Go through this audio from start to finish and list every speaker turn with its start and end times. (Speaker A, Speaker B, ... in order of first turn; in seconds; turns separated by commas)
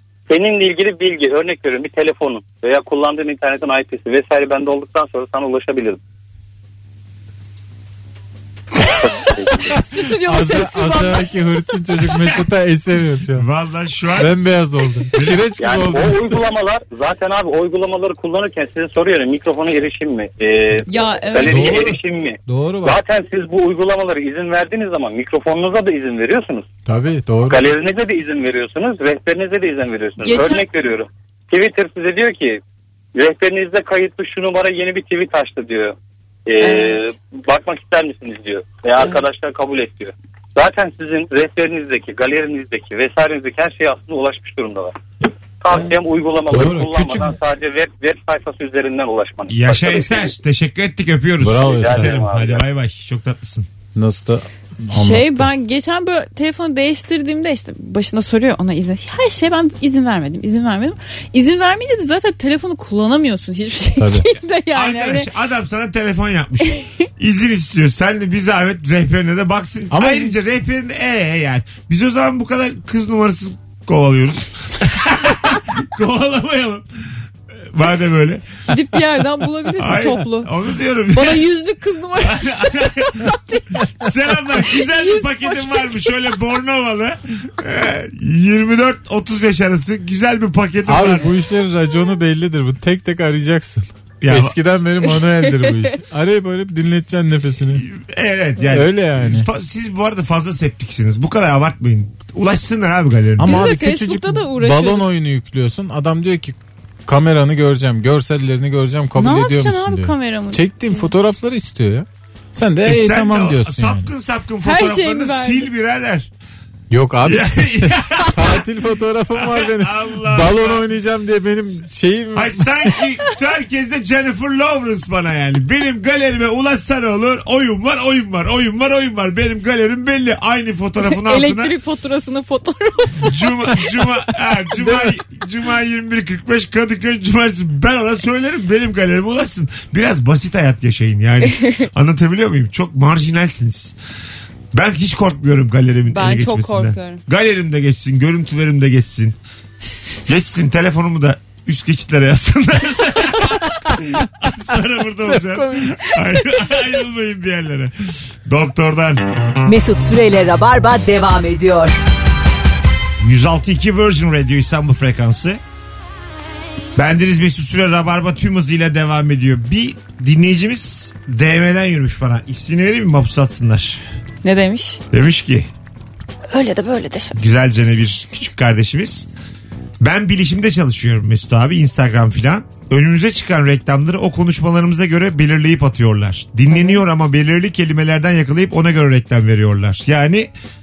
Speaker A: 0.3-6.0, Speaker A: 9.0-9.8, Speaker B: 9.8-11.3, Speaker C: 10.2-13.4, Speaker D: 13.4-14.3, Speaker C: 14.2-16.4, Speaker A: 15.6-26.7, Speaker B: 20.9-21.9, Speaker C: 21.5-21.9, Speaker C: 22.5-23.0, Speaker C: 26.9-27.6, Speaker A: 27.5-32.6, Speaker B: 30.2-30.7, Speaker A: 33.2-36.0, Speaker A: 36.5-45.0, Speaker B: 36.6-37.0, Speaker A: 45.6-50.3, Speaker C: 46.5-47.3, Speaker D: 49.5-53.7, Speaker C: 51.4-52.2, Speaker A: 51.6-52.6, Speaker C: 54.0-55.5, Speaker B: 54.9-65.3, Speaker C: 64.0-64.3, Speaker D: 64.8-76.8, Speaker C: 69.9-70.3, Speaker D: 77.7-78.5, Speaker B: 78.7-80.5, Speaker D: 79.8-81.5, Speaker B: 81.1-83.8, Speaker D: 82.2-83.3, Speaker D: 84.0-91.3, Speaker B: 84.6-86.2, Speaker C: 90.9-97.8, Speaker D: 94.2-94.6, Speaker B: 95.0-96.0, Speaker D: 97.7-103.7, Speaker C: 98.6-99.5, Speaker C: 103.4-114.1, Speaker B: 103.4-105.1, Speaker B: 109.1-111.1, Speaker D: 112.8-116.3, Speaker B: 114.6-115.7, Speaker C: 116.9-123.0, Speaker D: 117.2-118.6, Speaker D: 119.4-120.8, Speaker D: 122.3-131.7, Speaker B: 131.0-134.1, Speaker D: 133.2-144.0, Speaker B: 141.4-141.9, Speaker D: 144.7-149.4, Speaker B: 146.1-147.2, Speaker D: 150.3-157.9, Speaker C: 155.2-156.2, Speaker D: 158.4-159.2, Speaker E: 159.7-161.9, Speaker D: 163.2-165.6, Speaker D: 167.0-174.0, Speaker B: 174.4-175.0, Speaker D: 175.1-175.7, Speaker B: 176.5-177.3, Speaker D: 177.3-179.3, Speaker D: 180.0-190.5, Speaker B: 186.7-187.0